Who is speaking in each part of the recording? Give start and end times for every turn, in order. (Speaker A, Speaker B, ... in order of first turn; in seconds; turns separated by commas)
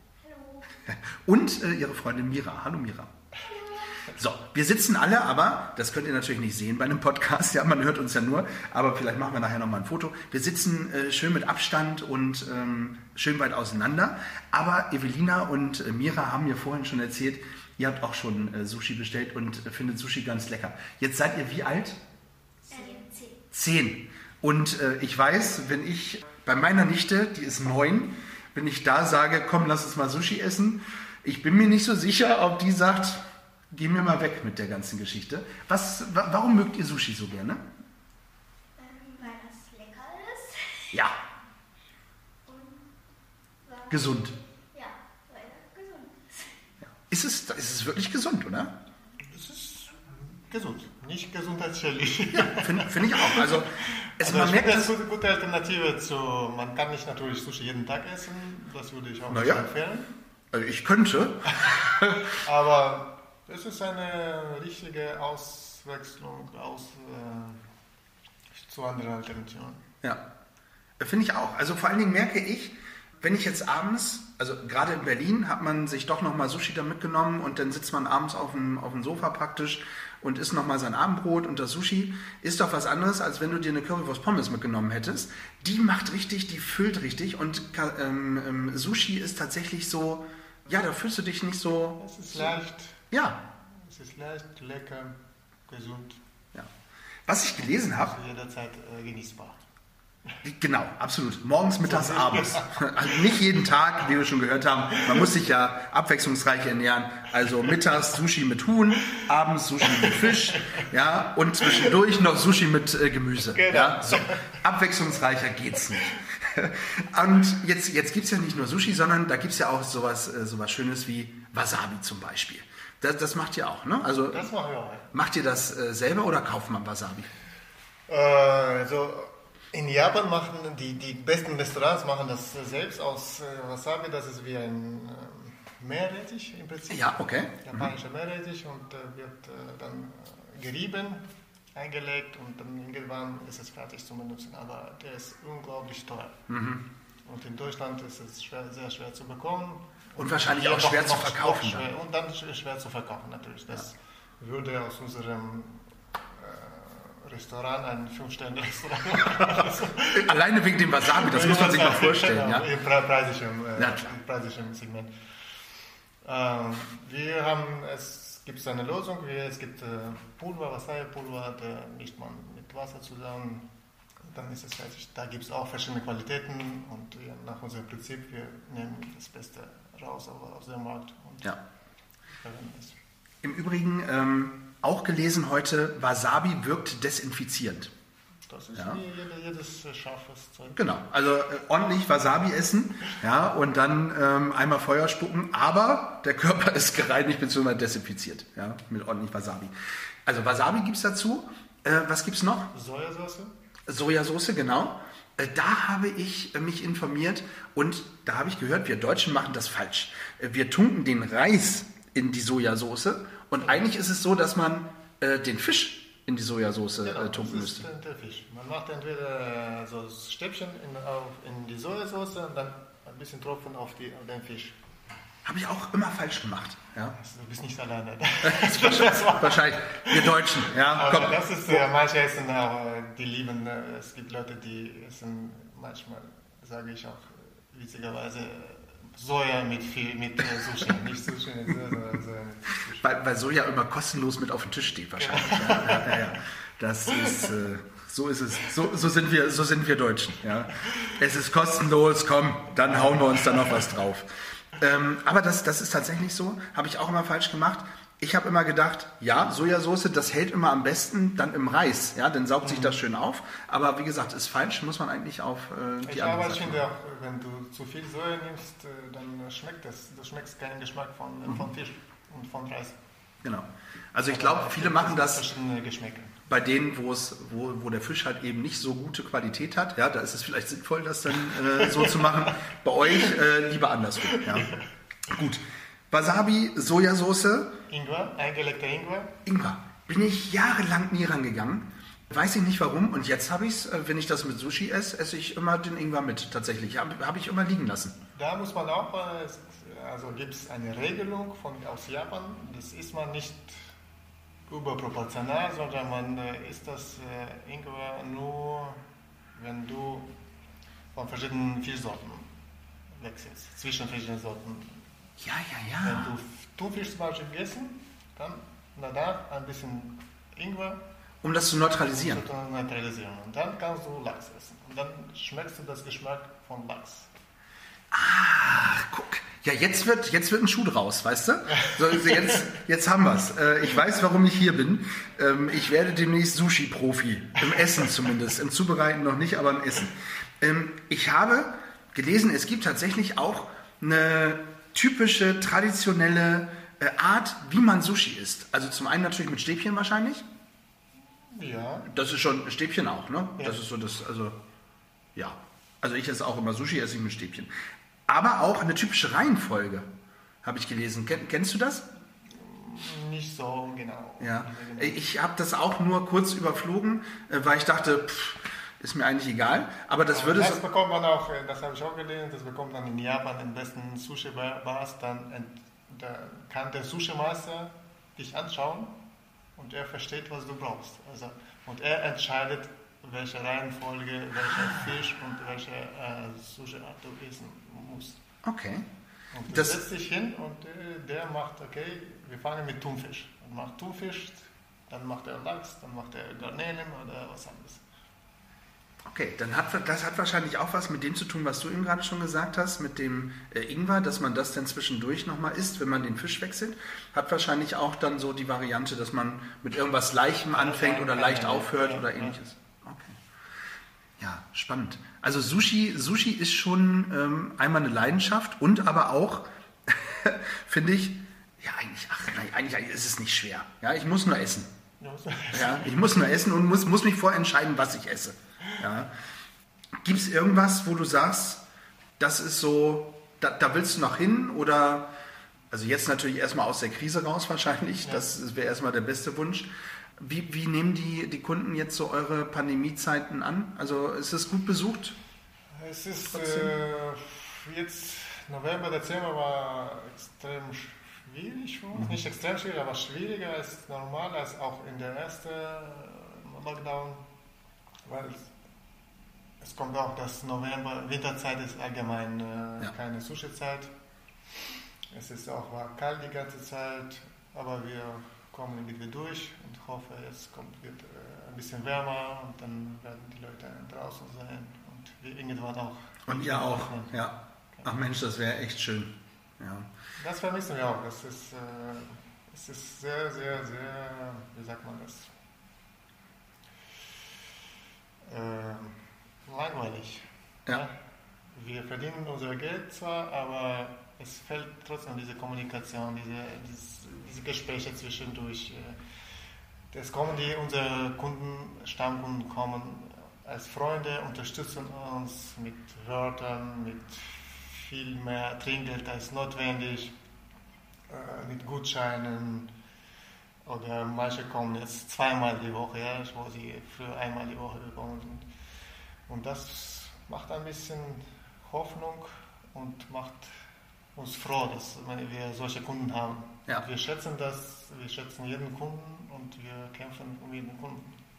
Speaker A: 0.2-0.8, Speaker B: 0.9-3.1, Speaker A: 3.4-4.0, Speaker B: 4.1-22.0, Speaker A: 22.7-23.4, Speaker B: 23.5-37.7, Speaker A: 38.8-41.0, Speaker B: 40.9-41.2, Speaker A: 42.5-42.9, Speaker A: 43.6-46.6, Speaker B: 43.9-44.3, Speaker B: 47.0-48.8, Speaker C: 49.3-60.1, Speaker B: 52.3-54.9, Speaker B: 59.3-59.6, Speaker B: 60.5-62.3, Speaker C: 61.6-67.6, Speaker C: 68.5-69.8, Speaker B: 71.0-92.5, Speaker C: 92.0-96.2, Speaker B: 93.1-93.4, Speaker B: 97.2-98.1, Speaker C: 97.6-99.6, Speaker B: 100.4-124.5, Speaker C: 101.8-103.2, Speaker C: 110.0-110.8, Speaker C: 113.5-114.6, Speaker C: 124.3-125.1, Speaker B: 125.1-127.3, Speaker C: 128.1-146.4, Speaker B: 136.9-137.9, Speaker B: 146.5-146.8, Speaker C: 147.2-160.3, Speaker B: 150.2-151.8, Speaker B: 160.1-162.7, Speaker C: 161.1-165.1, Speaker B: 163.8-164.1, Speaker C: 166.2-173.7, Speaker C: 174.2-181.6, Speaker C: 182.3-183.0, Speaker B: 183.4-187.9, Speaker C: 188.5-190.9, Speaker B: 190.8-199.7, Speaker B: 200.2-202.7, Speaker C: 202.7-203.5, Speaker B: 203.9-217.8, Speaker C: 217.0-224.8, Speaker B: 225.4-227.2, Speaker C: 227.1-243.1, Speaker B: 228.4-231.4, Speaker B: 243.0-266.8, Speaker C: 245.2-246.4, Speaker C: 247.2-247.4, Speaker C: 252.9-253.7, Speaker C: 262.6-262.9, Speaker C: 266.0-272.9, Speaker B: 273.4-275.4, Speaker C: 274.3-276.4, Speaker B: 276.5-284.7, Speaker C: 281.5-282.6, Speaker C: 284.3-284.8, Speaker B: 285.3-287.8, Speaker C: 287.9-289.4, Speaker B: 289.4-298.2, Speaker C: 298.3-303.9, Speaker C: 304.7-309.0, Speaker C: 309.5-310.3, Speaker C: 311.1-312.5, Speaker C: 313.1-315.1, Speaker B: 315.4-316.3, Speaker C: 316.0-321.0, Speaker B: 321.4-322.4, Speaker C: 322.1-327.3, Speaker B: 328.1-350.4, Speaker C: 351.3-352.1, Speaker B: 352.1-354.6, Speaker B: 355.3-357.7, Speaker B: 358.3-360.1, Speaker B: 360.6-362.1, Speaker C: 362.5-365.2, Speaker B: 364.4-370.8, Speaker C: 370.3-379.2, Speaker C: 379.8-388.4, Speaker B: 388.6-389.1, Speaker C: 389.5-398.0, Speaker B: 389.7-390.0, Speaker B: 399.2-413.4, Speaker C: 410.7-412.6, Speaker B: 414.4-424.9, Speaker C: 425.2-426.2, Speaker B: 425.7-429.3, Speaker B: 430.2-431.8, Speaker B: 432.4-435.3, Speaker B: 435.9-445.4, Speaker C: 445.9-457.4, Speaker B: 446.5-446.9, Speaker C: 458.2-458.7, Speaker C: 459.8-464.1, Speaker C: 465.3-477.3, Speaker B: 476.5-480.1, Speaker C: 480.4-485.5, Speaker C: 488.4-491.1, Speaker C: 491.7-499.2, Speaker C: 500.1-510.3, Speaker C: 511.3-512.9, Speaker C: 513.8-518.7, Speaker C: 519.5-523.7, Speaker C: 524.3-531.4